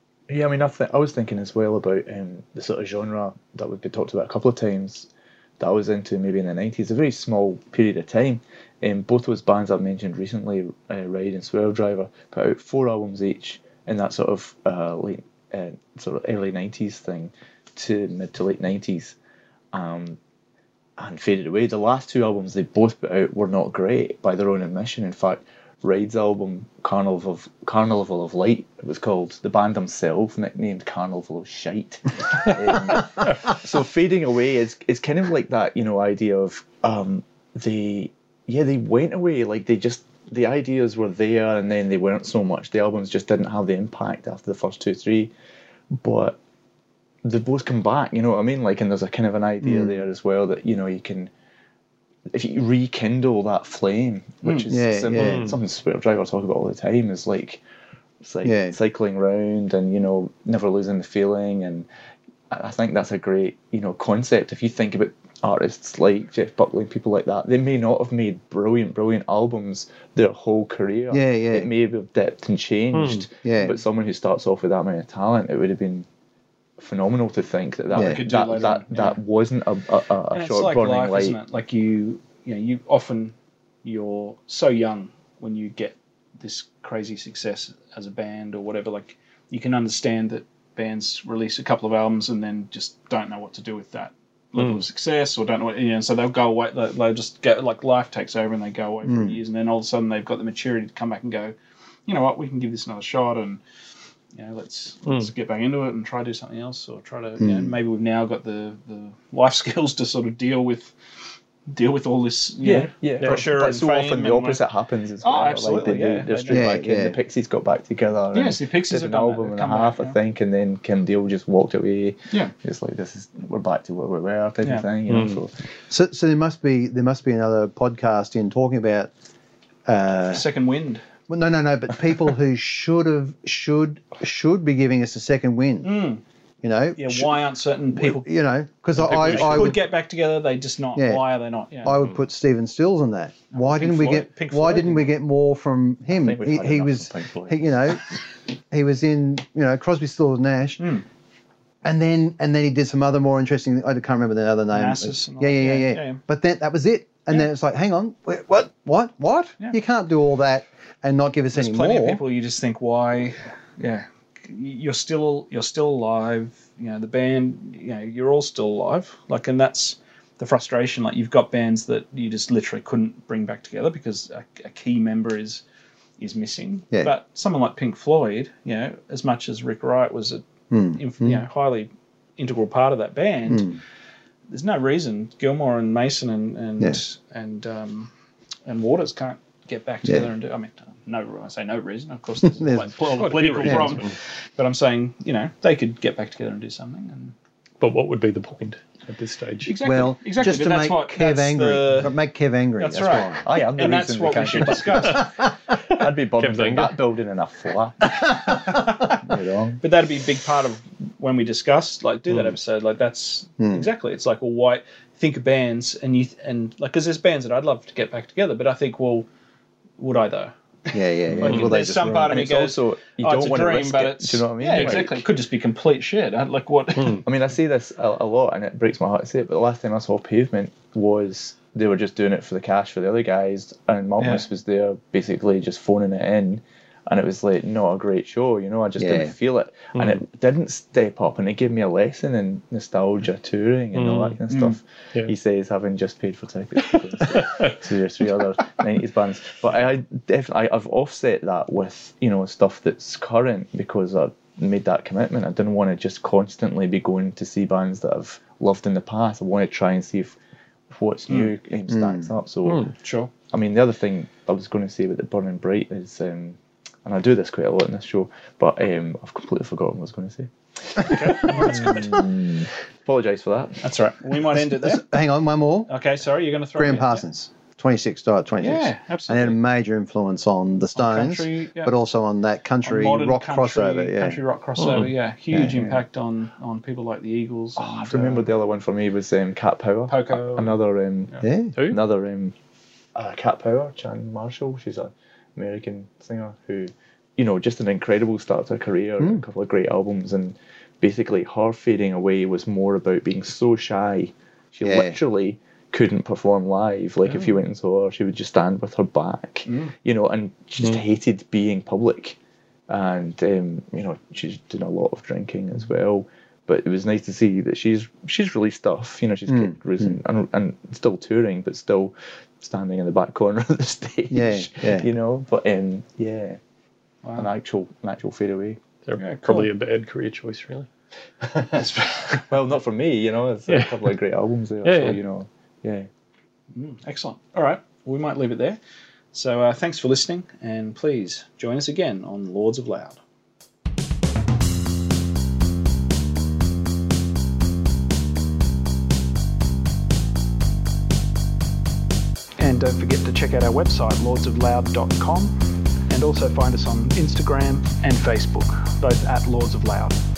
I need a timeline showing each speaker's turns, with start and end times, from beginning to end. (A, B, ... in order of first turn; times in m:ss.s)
0:00.3-0:19.2 A
0:19.7-0:20.2 A
0:21.0-0:45.3 A
0:45.9-0:46.4 A
0:47.2-0:51.3 A
0:49.6-0:50.0 B
0:52.3-0:57.6 A
0:54.4-0:54.7 C
0:54.7-0:55.5 B
0:55.1-0:55.6 D
0:58.2-1:01.9 A
0:58.4-0:58.8 B
1:02.5-1:16.1 A
1:11.1-1:11.7 B
1:12.9-1:13.3 D
1:13.4-1:13.8 B
1:16.8-1:21.4 A
1:17.9-1:19.2 C
1:17.9-1:18.2 B
1:20.3-1:41.5 C
1:34.6-1:34.8 D
1:39.1-1:39.4 B
1:42.1-1:43.6 C
1:44.4-1:50.9 C
1:47.4-1:47.8 B
1:51.7-1:54.6 C
1:52.6-2:05.5 A
1:53.2-1:53.4 D
1:55.2-1:56.8 C
1:56.5-1:57.2 B
1:58.3-2:00.2 C
2:04.6-2:04.9 C
2:05.1-2:05.4 D
2:05.9-2:09.1 B
2:09.9-2:10.4 B
2:10.3-2:11.0 C
2:11.3-2:15.9 B
2:15.8-2:16.2 C
2:16.6-2:17.4 B
2:17.0-2:18.3 C
2:17.9-2:19.8 B
2:19.0-2:19.8 D
2:19.0-2:22.0 C
2:21.0-2:21.3 B
2:21.8-2:28.0 B
2:23.5-2:25.1 C
2:26.1-2:27.8 A
2:28.7-2:30.8 B
2:30.8-2:31.0 C
2:31.8-2:42.2 B
2:34.7-2:36.2 C
2:41.5-2:55.6 C
2:56.2-3:03.8 C
3:00.7-3:01.4 B
3:03.5-3:03.8 B
3:04.5-3:08.1 C
3:08.7-3:17.4 C
3:12.4-3:13.0 B
3:13.1-3:14.2 D
3:13.6-3:14.0 B
3:17.8-3:19.7 D
3:19.6-3:22.2 C
3:19.8-3:23.4 B
3:22.8-3:25.3 C
3:23.4-3:29.8 A
3:26.4-3:27.0 D
3:28.5-3:29.1 C
3:29.8-3:39.3 C
3:33.6-3:33.9 B
3:40.0-3:47.3 C
3:40.9-3:42.4 B
3:41.3-3:41.8 A
3:42.3-3:45.2 A
3:47.1-4:20.4 A
3:54.2-3:54.4 C
3:59.0-3:59.3 B
3:59.9-4:00.2 D
4:03.9-4:04.4 D
4:04.5-4:04.8 C
4:06.9-4:07.8 D
4:20.9-4:22.9 A
4:21.9-4:22.3 B
4:23.0-4:23.3 C
4:23.5-4:33.8 A
4:31.0-4:32.2 C
4:33.8-4:35.0 C
4:34.5-4:35.9 B
4:35.9-4:37.2 C
4:36.8-4:44.4 B
4:38.6-4:39.6 C
4:41.0-4:41.9 C
4:42.8-4:48.5 C
4:44.8-4:45.1 D
4:47.8-4:52.6 A
4:50.1-4:50.8 C
4:51.4-4:51.8 B
4:53.2-5:12.4 A
5:04.8-5:05.2 B
5:09.7-5:09.9 C
5:12.9-5:26.6 A
5:19.5-5:20.2 B
5:24.3-5:25.1 B
5:27.2-5:27.5 C
5:27.4-5:28.8 A
5:29.1-5:30.9 D
5:29.2-5:29.7 C
5:31.5-5:31.8 A
5:31.8-5:32.5 C
5:32.5-5:36.1 A
5:33.7-5:34.1 D
5:34.8-5:35.2 D
5:36.7-5:38.8 C
5:39.3-5:43.2 C
5:52.6-6:00.2 C